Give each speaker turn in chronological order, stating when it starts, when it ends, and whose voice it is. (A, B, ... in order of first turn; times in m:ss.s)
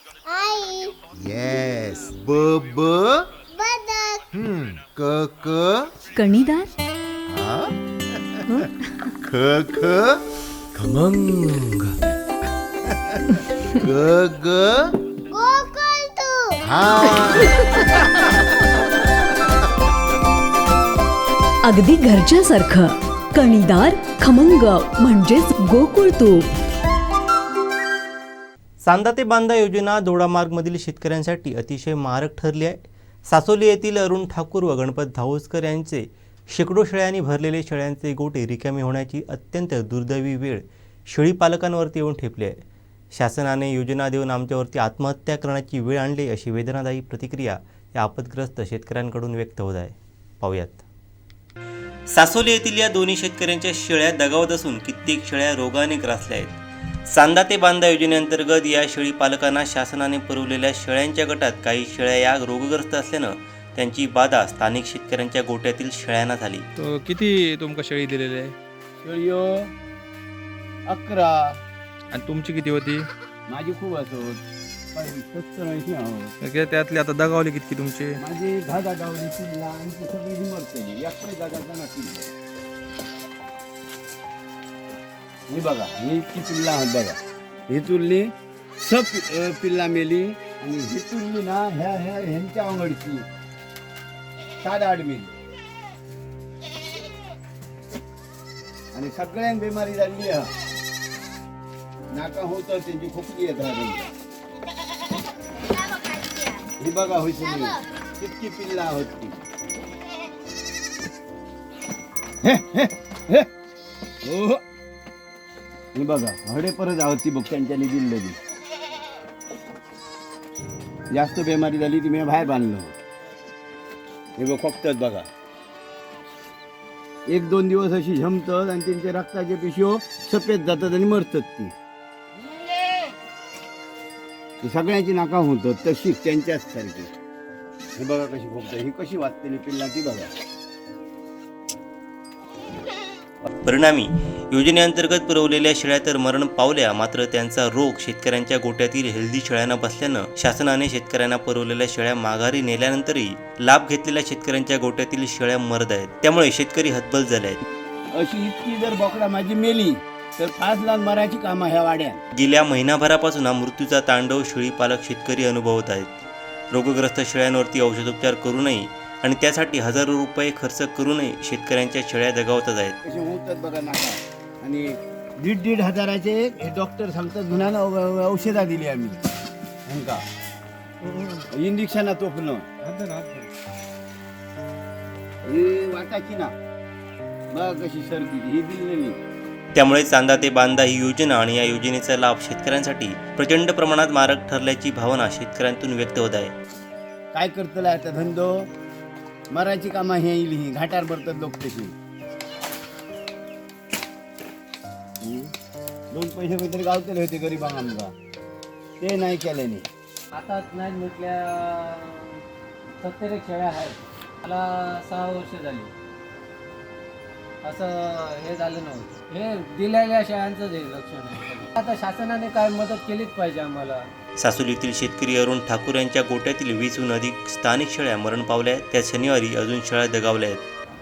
0:00.3-0:01.0 A
0:01.2-0:03.2 B
0:03.5-0:04.2 A
0:04.3-0:05.9 B
0:06.1-0:06.7 C
0:07.3-0:07.6 B
0:09.2-0:10.2 B
0:10.8-0:11.8 B
0:13.8-0:14.8 B
0:15.3-0:16.6 A
0:16.7-0:17.5 B
0:21.6-0:26.5 C
0:28.8-0:50.8 D
0:52.1-1:06.6 D
1:06.8-1:08.6 E
1:09.0-1:09.7 F
1:10.9-1:11.6 F
1:12.1-1:13.1 E
1:13.5-1:14.4 F
1:14.9-1:16.3 F
1:16.4-1:18.2 E
1:18.2-1:22.3 F
1:25.5-1:33.2 F
1:34.6-1:35.3 F
1:38.9-1:40.5 F
1:42.1-1:44.1 F
1:45.7-1:46.6 A
1:46.8-1:49.4 F
1:52.4-1:53.5 F
1:54.2-1:54.6 F
1:55.9-1:58.4 F
2:01.1-2:02.9 F
2:04.4-2:05.3 F
2:07.3-2:11.7 F
2:14.6-2:17.1 F
2:18.0-2:20.3 F
2:23.6-2:37.6 D
2:38.1-2:42.2 F
2:42.3-2:46.2 D
2:46.7-2:53.0 D
2:53.0-2:59.2 F
2:59.9-3:00.2 F
3:01.5-3:02.7 F
3:02.8-3:03.5 G
3:05.4-3:06.5 F
3:07.5-3:09.2 F
3:09.7-3:16.5 D
3:17.3-3:18.7 F
3:19.5-3:21.9 F
3:25.2-3:25.5 F
3:26.1-3:28.1 F
3:29.0-3:29.9 F
3:30.3-3:32.4 G
3:33.0-3:35.9 G
3:37.6-3:44.0 G
3:44.4-3:50.6 D